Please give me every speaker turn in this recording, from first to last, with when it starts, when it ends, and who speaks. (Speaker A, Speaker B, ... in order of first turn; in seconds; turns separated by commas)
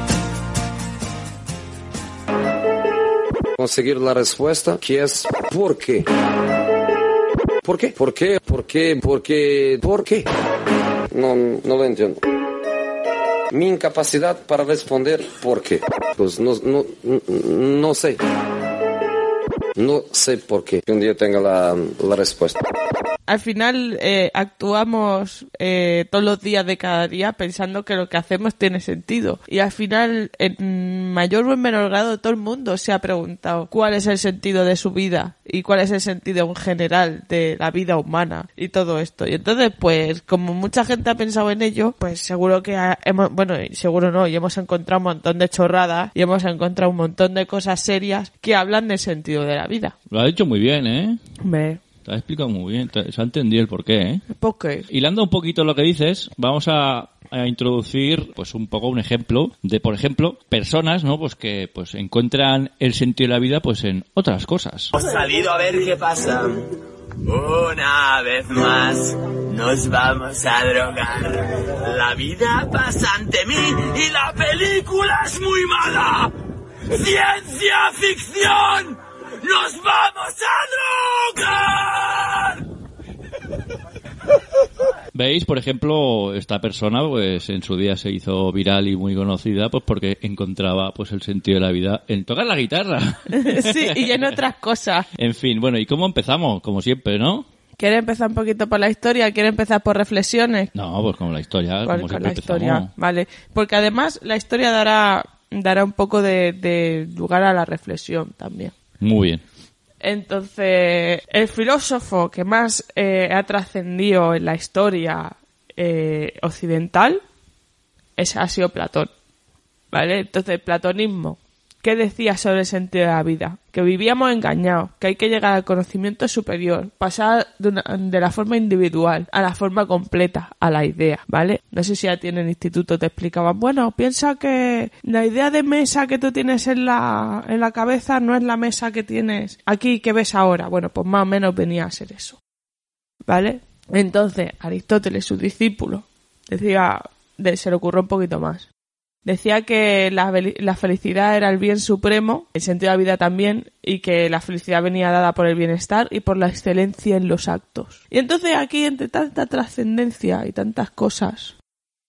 Speaker A: 3.6-6.1, Speaker A: 7.6-10.3, Speaker A: 11.1-12.2, Speaker A: 13.5-18.2, Speaker A: 19.8-22.6, Speaker B: 23.3-49.9, Speaker C: 50.1-51.2, Speaker B: 51.4-51.8, Speaker C: 52.0-54.2, Speaker B: 54.4-54.8, Speaker C: 54.9-64.9, Speaker D: 64.9-66.7, Speaker D: 67.2-76.3, Speaker D: 76.8-82.6, Speaker C: 85.1-94.3, Speaker B: 93.3-95.1, Speaker C: 95.1-97.5, Speaker B: 97.8-100.7, Speaker C: 100.7-102.9, Speaker B: 101.8-108.7, Speaker C: 109.0-109.4, Speaker B: 110.0-117.2, Speaker B: 118.2-119.1, Speaker B: 119.9-142.4, Speaker B: 143.3-148.7, Speaker B: 149.2-161.5